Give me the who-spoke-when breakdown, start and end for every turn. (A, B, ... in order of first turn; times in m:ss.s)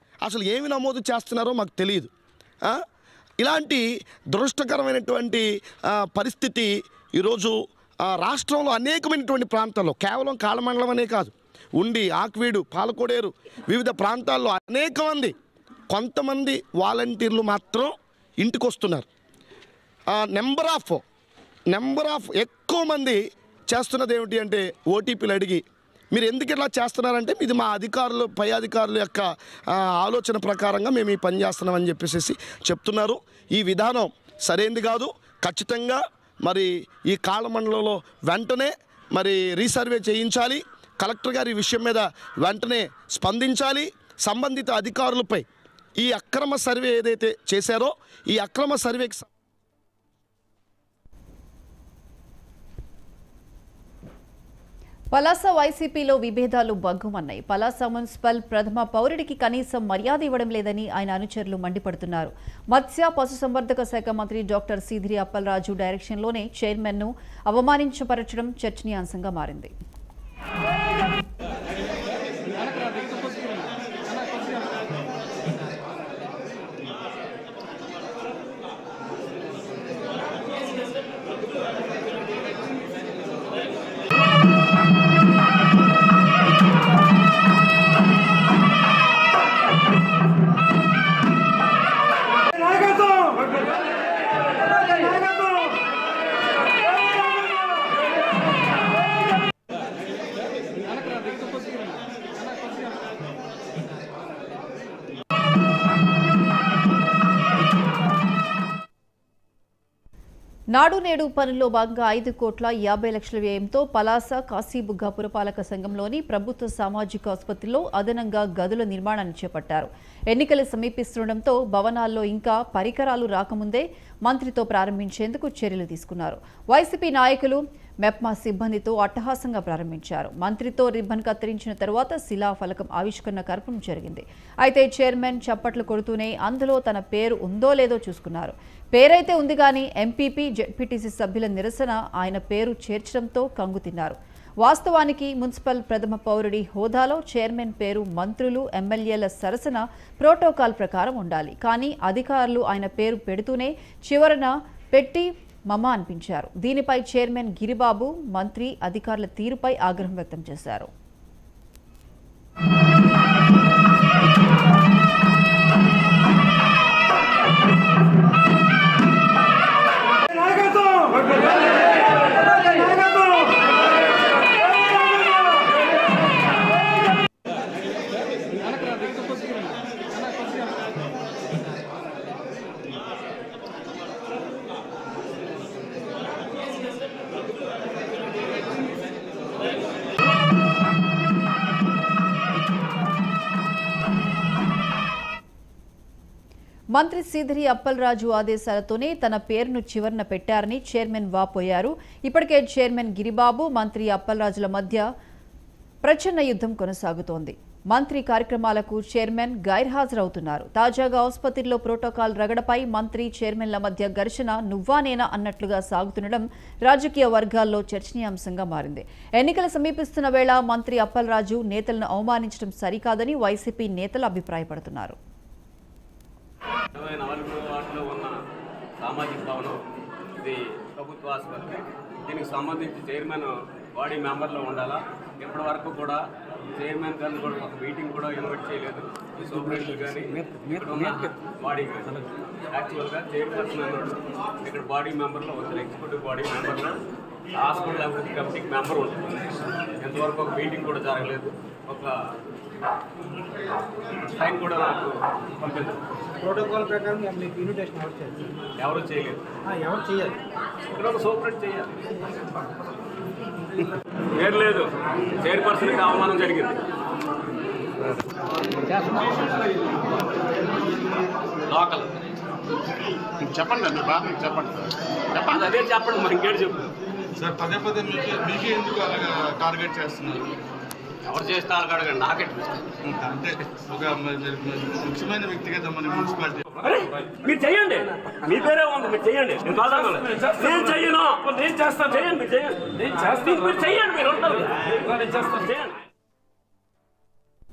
0:00.2-0:02.1 A
0:03.4-0:15.3 A
0:15.9-0:19.1 A
0:20.1-0:21.0 A
0:21.7-0:45.4 A
0:46.0-0:49.3 A
0:55.1-1:09.7 B
1:50.7-2:40.9 B
3:16.9-3:25.0 B
3:26.0-3:45.2 B
3:46.9-3:48.4 C
3:49.0-3:49.8 C
3:50.4-3:56.2 C
3:56.8-4:07.0 C
4:07.6-4:12.1 C
4:14.3-4:16.0 C
4:16.4-4:18.5 D
4:18.8-4:19.4 C
4:19.6-4:20.4 D
4:20.9-4:22.1 C
4:24.4-4:26.8 C
4:29.0-4:29.6 C
4:31.7-4:32.1 C
4:33.4-4:36.9 C
4:37.4-4:40.5 E
4:41.2-4:42.8 C
4:43.0-4:46.6 E
4:46.8-4:56.0 C